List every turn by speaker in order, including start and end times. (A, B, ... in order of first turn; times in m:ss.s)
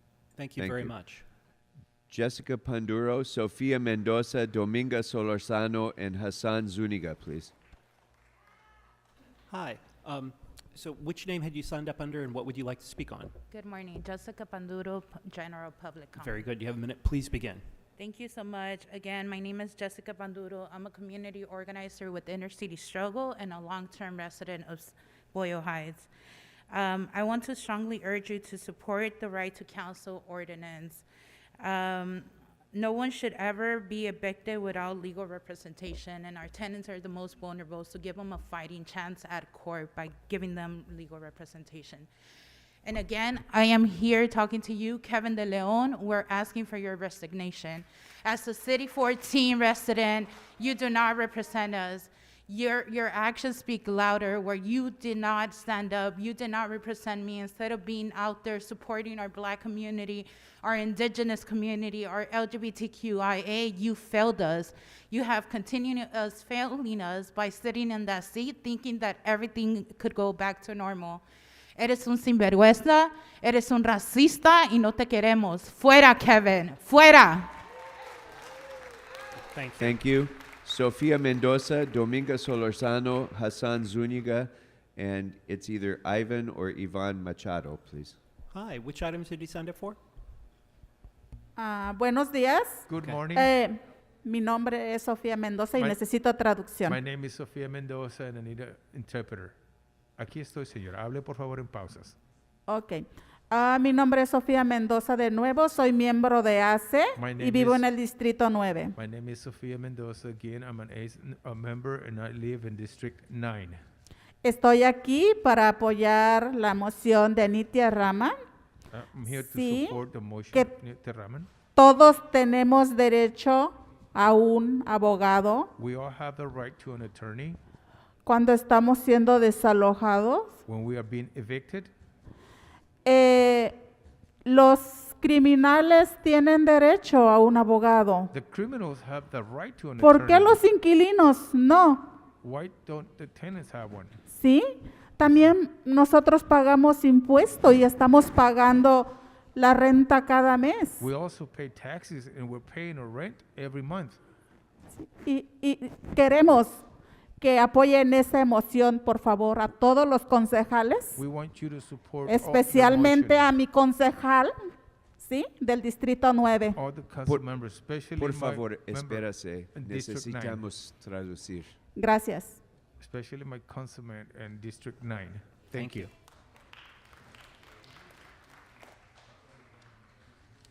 0:00.3-0:01.2 A
0:00.6-0:01.0 B
0:02.1-0:07.5 B
0:09.5-0:13.3 A
0:13.5-0:16.5 C
0:16.2-0:17.6 A
0:18.0-0:26.1 C
0:26.7-0:31.0 C
0:31.6-0:42.1 C
0:42.8-1:11.2 C
1:11.8-1:17.5 C
1:19.4-1:20.0 A
1:19.8-1:28.2 B
1:28.5-1:30.0 A
1:31.6-1:37.0 D
1:32.9-1:33.5 E
1:36.8-1:39.6 E
1:40.2-1:42.2 E
1:42.7-1:49.0 D
1:47.2-1:47.8 E
1:49.0-1:53.8 E
1:54.4-1:58.3 D
1:58.9-2:01.5 E
1:59.3-2:00.0 D
2:01.8-2:05.7 D
2:05.8-2:07.6 E
2:08.3-2:10.6 D
2:10.7-2:11.9 E
2:13.0-2:13.7 D
2:14.5-2:18.3 D
2:18.3-2:20.6 E
2:20.0-2:22.1 D
2:22.4-2:24.2 E
2:24.3-2:24.7 D
2:25.2-2:31.1 D
2:31.0-2:34.2 E
2:35.1-2:36.8 D
2:37.4-2:41.2 D
2:41.2-2:43.5 E
2:42.2-2:46.8 D
2:46.8-2:50.6 E
2:48.2-2:51.8 B
2:52.0-2:52.6 D
2:53.0-2:56.1 E
2:55.8-2:56.1 A